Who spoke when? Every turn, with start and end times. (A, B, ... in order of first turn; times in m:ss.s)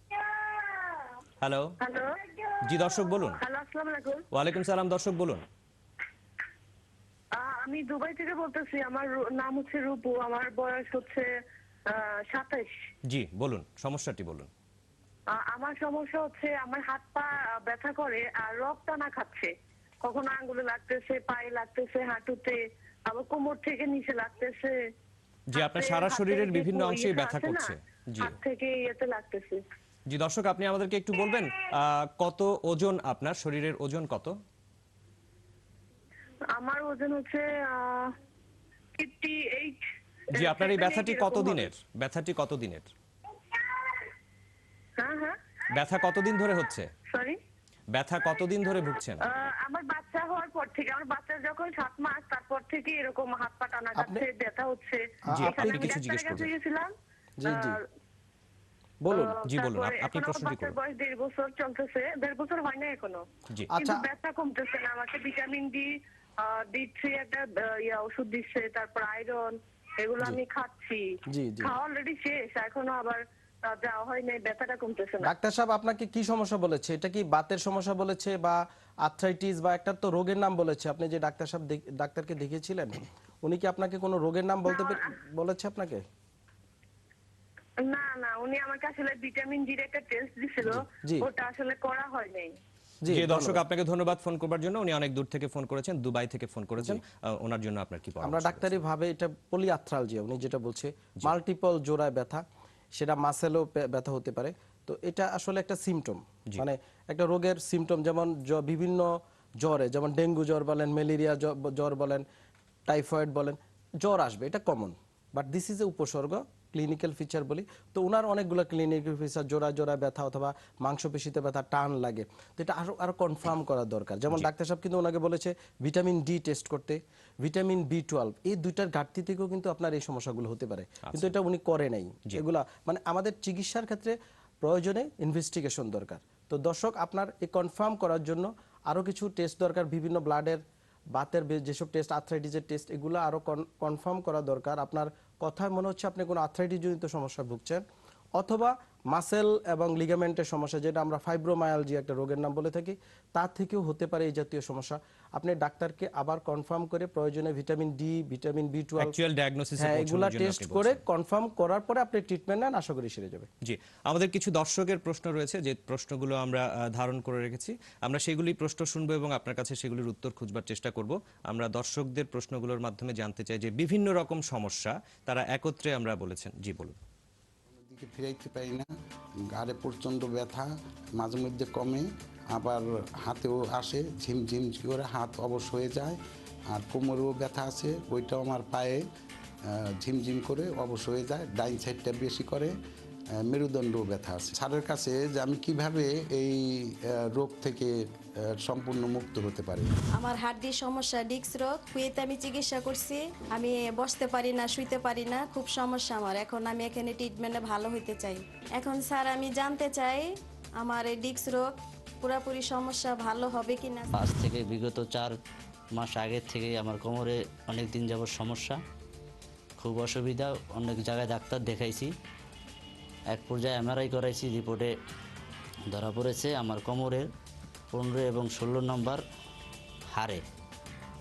0:00.2-0:01.0 A
0:01.4-0:01.7 B
0:01.8-0:02.5 A
0:02.6-0:03.4 B
0:03.2-0:04.2 A
0:04.3-0:05.4 B
0:07.4-0:11.2 A
0:11.9-0:12.7 A
0:13.1-0:14.5 B
0:15.4-0:19.5 A
0:20.0-0:24.7 A
0:25.5-0:28.4 B
0:25.6-0:29.6 A
0:30.1-0:34.3 B
0:36.5-0:38.1 A
0:39.0-0:39.8 A
0:40.3-0:42.9 B
0:40.3-0:41.7 A
0:43.5-0:44.1 A
0:45.0-0:45.4 A
0:45.7-0:46.9 B
0:47.1-0:47.4 A
0:47.9-0:49.2 B
0:49.3-0:56.9 A
0:54.0-0:54.2 C
0:55.3-0:56.0 C
0:55.3-0:56.5 B
0:57.4-0:57.8 C
0:57.4-0:57.8 A
0:59.0-0:59.4 C
0:59.1-1:03.2 A
0:59.5-1:00.8 B
1:03.7-1:04.0 C
1:03.7-1:11.0 A
1:11.3-1:11.7 C
1:11.6-1:15.3 A
1:15.2-1:26.0 C
1:24.7-1:25.0 A
1:27.9-1:32.5 A
1:30.6-1:31.3 C
1:33.0-1:33.6 C
1:33.1-1:38.8 B
1:38.2-1:42.4 C
1:42.9-1:52.2 C
1:52.9-2:20.6 C
2:11.0-2:11.3 B
2:21.1-2:27.8 C
2:28.4-2:39.1 C
2:39.0-2:41.0 B
2:39.8-2:43.5 C
2:43.6-2:56.9 B
2:57.7-2:58.9 D
2:59.5-3:06.2 D
3:06.7-3:09.0 D
3:09.7-3:12.7 D
3:13.4-3:17.9 D
3:18.6-3:19.9 D
3:20.2-3:34.2 E
3:34.1-3:35.4 F
3:36.0-3:38.8 F
3:39.8-3:42.1 F
3:43.3-3:44.9 F
3:45.9-3:47.3 F
3:47.9-3:49.2 F
3:50.1-3:50.4 F